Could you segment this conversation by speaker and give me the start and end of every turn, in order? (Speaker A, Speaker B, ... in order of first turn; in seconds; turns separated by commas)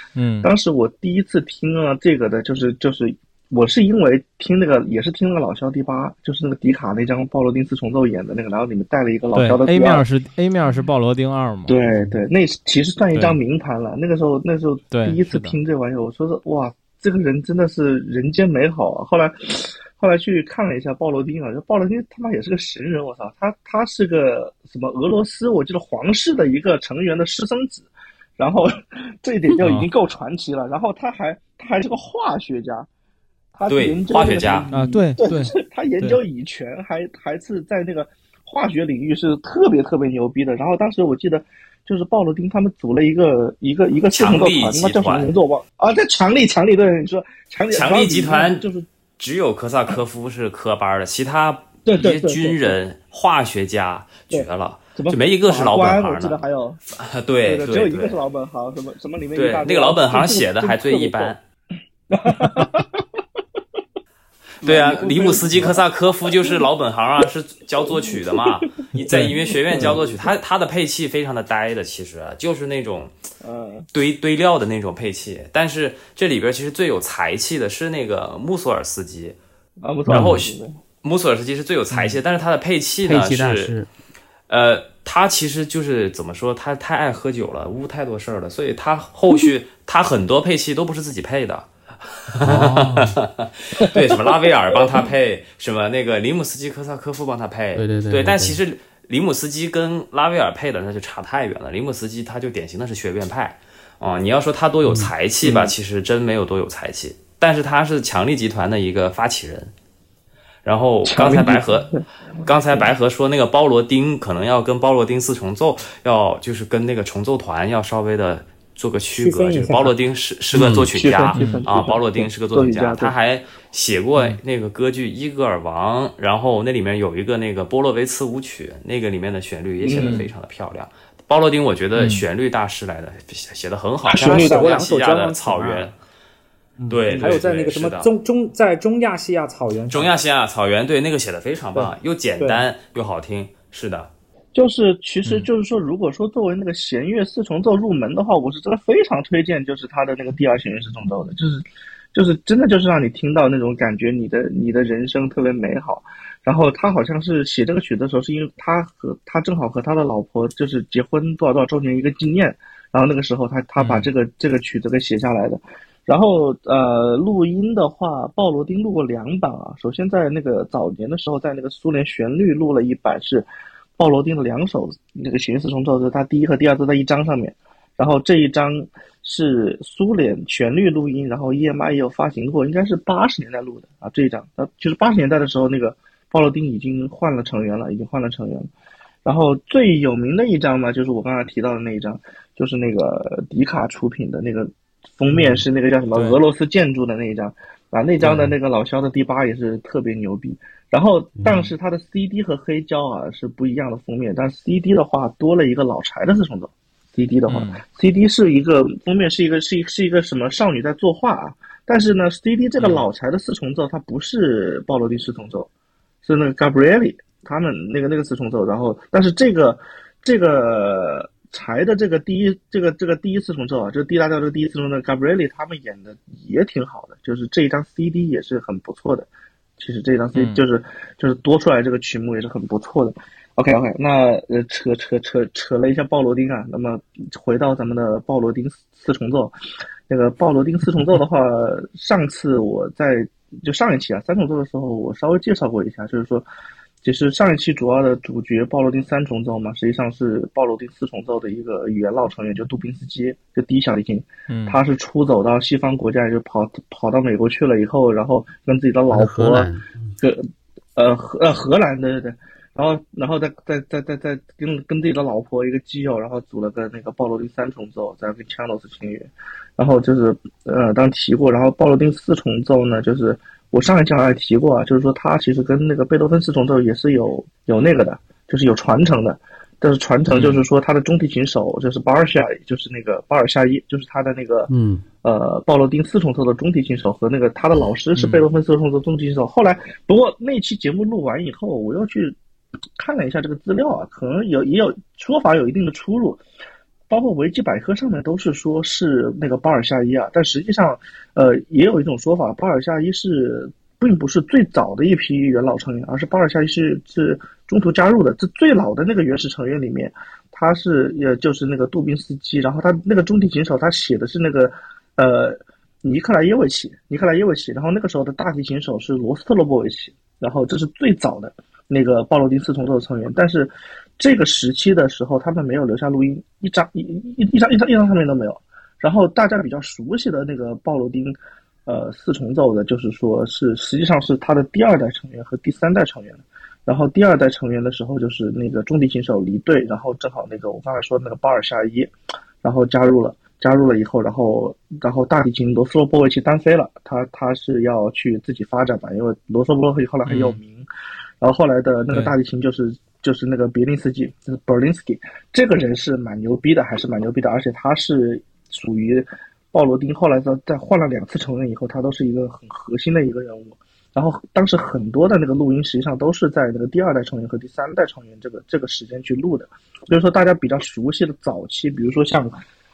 Speaker A: 0.2-0.5, Speaker B: 0.4-10.1, Speaker A: 9.3-11.8, Speaker B: 11.7-28.7, Speaker A: 13.1-13.4, Speaker A: 14.9-15.6, Speaker B: 29.2-32.9, Speaker A: 29.6-29.9, Speaker B: 33.5-48.9, Speaker C: 33.7-34.7, Speaker A: 34.7-36.2, Speaker C: 44.1-45.4, Speaker C: 47.7-48.6, Speaker C: 49.2-58.2, Speaker B: 51.9-52.8, Speaker B: 54.3-56.8, Speaker B: 57.5-61.3, Speaker C: 59.3-61.4, Speaker B: 62.1-63.6, Speaker B: 64.6-65.8, Speaker C: 64.6-73.1, Speaker B: 66.3-66.6, Speaker B: 67.8-70.3, Speaker B: 73.4-73.9, Speaker C: 73.9-79.4, Speaker B: 79.8-80.8, Speaker C: 80.1-83.7, Speaker D: 80.1-80.4, Speaker D: 83.0-83.9, Speaker C: 84.5-109.7, Speaker D: 92.5-93.2, Speaker B: 93.8-94.2, Speaker D: 97.8-98.6, Speaker B: 105.4-105.7, Speaker C: 110.7-111.9, Speaker B: 111.0-112.1, Speaker C: 112.4-135.9, Speaker B: 119.1-120.0, Speaker B: 120.5-123.1, Speaker D: 120.6-120.9, Speaker A: 121.3-121.7, Speaker B: 129.8-130.3, Speaker A: 130.0-130.3, Speaker A: 132.0-132.2, Speaker B: 134.1-134.8, Speaker E: 134.2-135.8, Speaker C: 136.9-138.1, Speaker E: 137.1-140.1, Speaker C: 139.9-144.1, Speaker E: 141.7-142.6, Speaker B: 144.5-188.7, Speaker A: 163.8-164.1, Speaker B: 189.2-215.7, Speaker D: 195.3-195.6, Speaker A: 196.1-196.4, Speaker D: 198.2-198.5, Speaker D: 201.4-201.7, Speaker A: 207.5-207.8, Speaker A: 212.8-213.1, Speaker B: 216.2-239.6, Speaker A: 230.3-230.6, Speaker B: 240.1-246.5, Speaker B: 247.0-284.7, Speaker A: 254.5-254.8, Speaker D: 259.1-260.1, Speaker A: 280.3-280.6, Speaker D: 284.7-285.0, Speaker B: 285.2-292.4, Speaker A: 288.2-288.4, Speaker B: 293.0-296.4, Speaker B: 297.1-342.1, Speaker B: 342.6-350.9, Speaker A: 350.3-350.6, Speaker B: 351.4-372.6